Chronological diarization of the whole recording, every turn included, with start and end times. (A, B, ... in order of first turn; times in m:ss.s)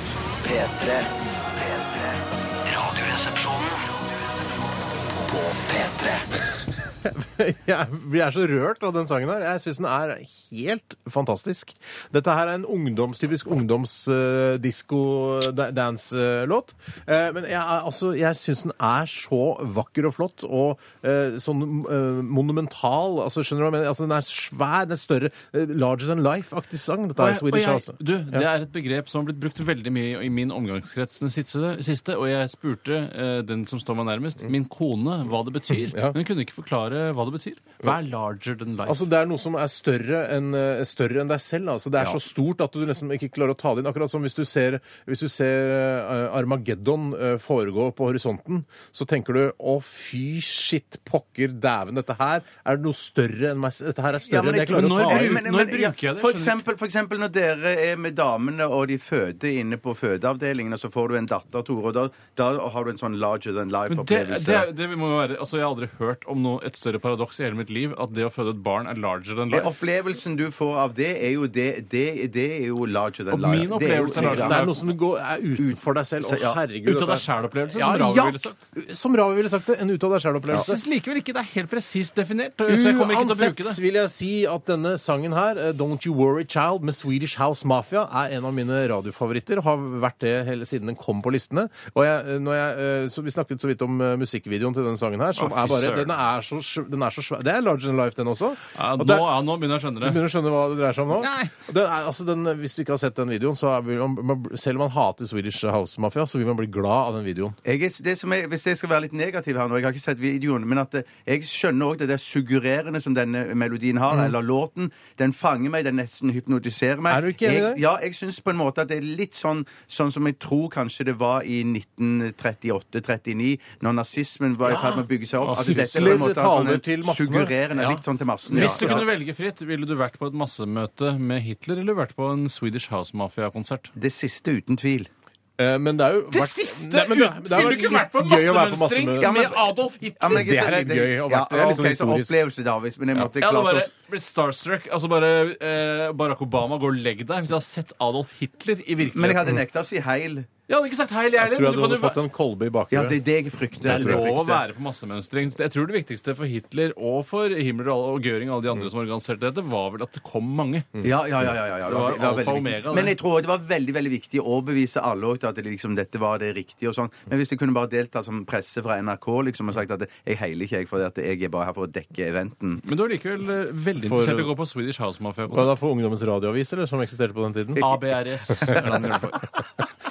0:00.4-0:03.9 A
0:05.2-0:06.3 A
0:07.0-0:28.5 B
0:27.2-0:39.0 C
0:35.8-0:36.2 B
0:38.9-0:55.4 B
0:54.2-1:04.7 D
0:54.7-0:56.6 C
1:03.9-1:09.7 C
1:09.5-1:14.7 D
1:13.3-1:14.7 C
1:14.2-1:20.8 B
1:15.6-1:16.6 D
1:16.8-1:18.6 C
1:20.5-1:23.8 C
1:22.7-1:39.3 B
1:35.4-1:36.1 C
1:38.8-1:40.3 C
1:40.0-1:47.6 B
1:41.2-1:41.6 C
1:47.6-2:09.1 D
1:57.1-1:57.8 B
2:04.6-2:09.1 B
2:05.5-2:06.2 C
2:08.5-2:13.9 C
2:14.0-2:15.1 D
2:15.6-2:19.6 B
2:16.3-2:20.7 C
2:19.2-2:23.9 D
2:20.3-2:22.3 B
2:23.2-2:29.6 C
2:29.1-2:30.5 D
2:30.7-2:32.2 C
2:31.4-2:33.2 B
2:32.9-2:34.6 D
2:33.8-2:41.0 C
2:33.8-2:34.3 B
2:41.0-2:52.8 D
2:41.9-2:43.2 C
2:52.8-2:55.7 C
2:54.0-2:54.5 B
2:55.5-2:58.0 B
2:57.8-2:59.4 C
2:58.5-2:59.4 B